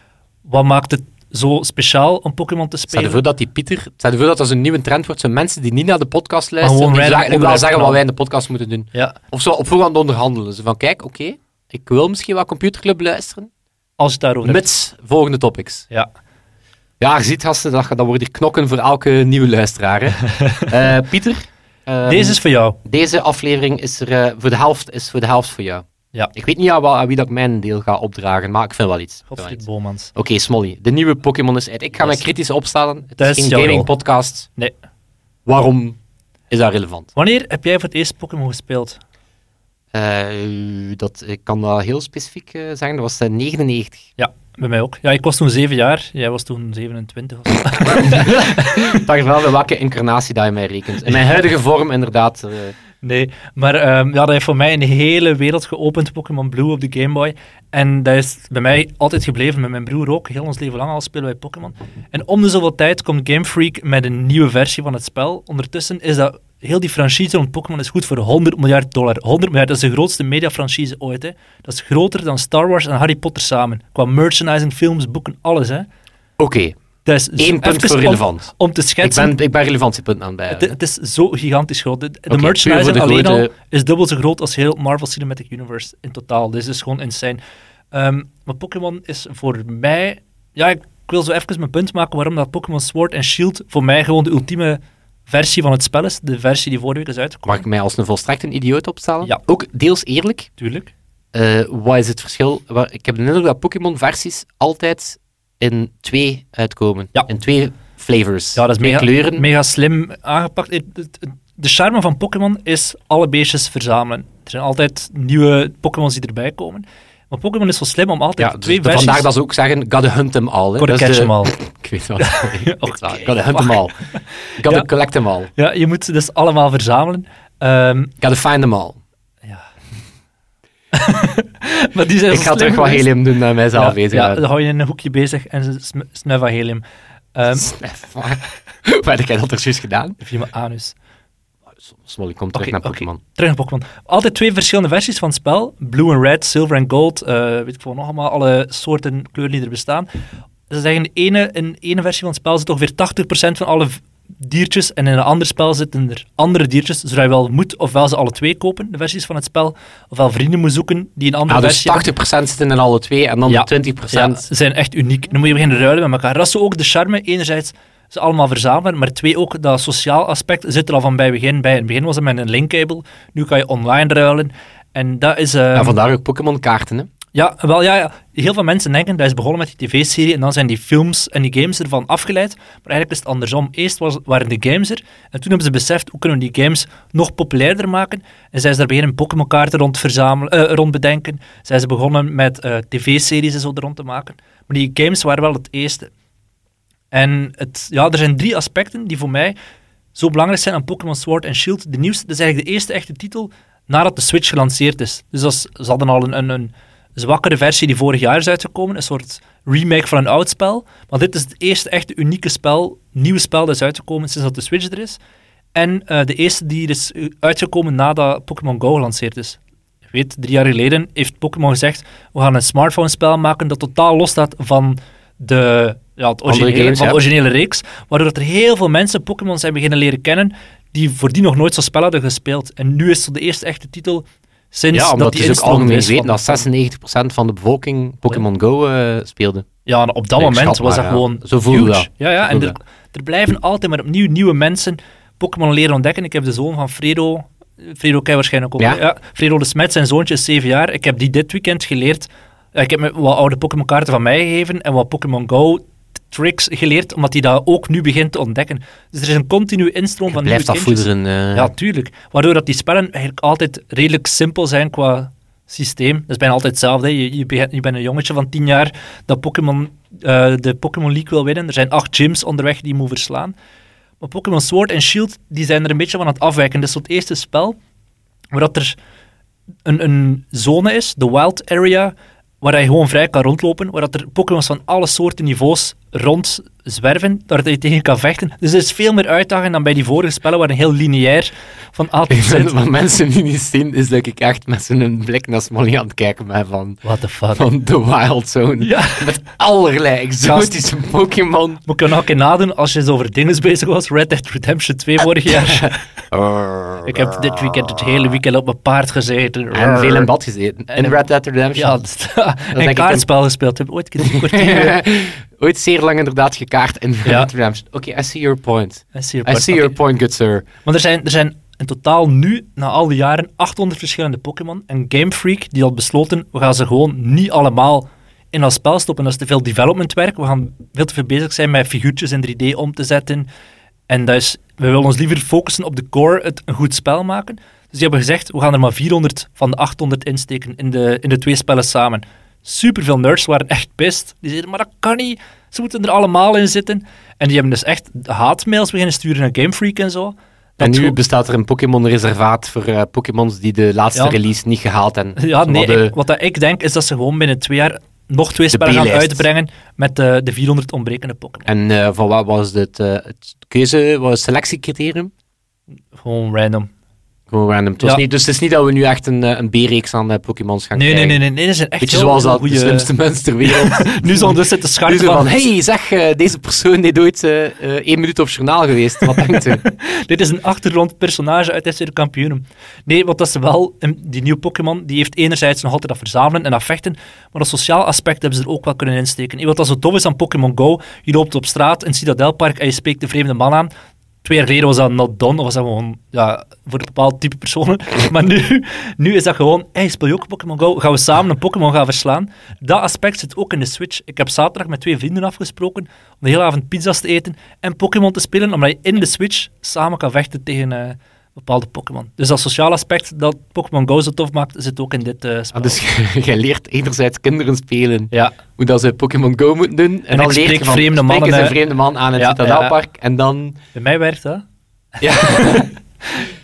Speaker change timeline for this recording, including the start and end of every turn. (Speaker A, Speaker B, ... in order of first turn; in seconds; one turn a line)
Speaker A: 0.4-3.2
Speaker B: 2.9-13.5
Speaker A: 6.6-8.0
Speaker A: 14.0-14.6
Speaker B: 14.4-15.9
Speaker B: 17.0-29.6
Speaker A: 20.2-20.7
Speaker A: 22.0-22.8
Speaker A: 29.3-30.1
Speaker B: 30.1-34.5
Speaker A: 32.0-32.2
Speaker A: 33.2-33.9
Speaker B: 35.5-36.0
Speaker B: 36.5-37.1
Speaker A: 37.1-39.0
Speaker B: 39.9-44.1
Speaker A: 44.2-49.0
Speaker B: 47.9-52.8
Speaker A: 53.0-75.9
Speaker B: 76.4-76.8
Speaker A: 77.0-79.3
Speaker B: 77.4-78.5
Speaker B: 79.0-80.8
Speaker A: 80.5-87.4
Speaker B: 82.3-83.5
Speaker A: 87.9-97.6
Speaker B: 97.5-100.5
Speaker A: 100.6-100.9
Speaker B: 101.3-109.5
Speaker A: 108.5-119.3
Speaker B: 118.4-123.9
Speaker A: 120.8-121.6
Speaker A: 122.2-124.9
Speaker B: 124.6-125.5
Speaker A: 125.6-128.1
Speaker B: 128.2-129.0
Speaker A: 130.9-133.1
Speaker B: 132.3-134.4
Speaker A: 133.7-136.8
Speaker A: 137.3-137.7
Speaker B: 137.5-140.2
Speaker A: 140.2-140.9
Speaker B: 141.8-143.2
Speaker A: 142.5-150.1
Speaker A: 150.7-162.1
Speaker B: 161.5-164.4
Speaker A: 163.5-176.0
Speaker B: 175.7-177.1
Speaker A: 177.3-196.1
Speaker A: 197.1-199.6
Speaker A: 200.1-215.2
Speaker A: 215.7-219.6
Speaker A: 220.1-236.7
Speaker B: 226.5-227.2
Speaker B: 234.9-239.7
Speaker A: 239.8-273.5
Speaker B: 240.4-242.8
Speaker B: 260.3-261.7
Speaker A: 274.2-277.8
Speaker A: 278.5-278.9
Speaker A: 279.8-292.7
Speaker B: 292.3-297.0
Speaker A: 297.0-297.7
Speaker B: 297.5-301.8
Speaker A: 298.8-299.3
Speaker A: 300.4-300.7
Speaker A: 301.9-306.0
Speaker B: 305.5-308.2
Speaker A: 307.0-310.3
Speaker B: 309.7-312.0
Speaker A: 310.9-311.2
Speaker A: 311.7-315.0
Speaker B: 312.7-313.2
Speaker B: 314.2-320.7
Speaker A: 317.2-317.5
Speaker A: 319.1-319.9
Speaker A: 320.8-333.5
Speaker A: 334.1-351.2
Speaker B: 350.8-356.1
Speaker A: 355.4-361.7
Speaker B: 358.7-359.4
Speaker B: 361.6-365.3
Speaker A: 366.1-366.9
Speaker B: 367.5-371.4
Speaker A: 370.9-373.1
Speaker B: 372.0-379.8
Speaker A: 373.6-375.5
Speaker A: 379.3-393.9
Speaker A: 394.4-416.0
Speaker B: 415.7-423.8
Speaker A: 418.3-418.6
Speaker A: 420.3-421.8
Speaker A: 422.4-422.9
Speaker A: 423.9-424.6
Speaker B: 425.2-425.9
Speaker A: 425.2-426.5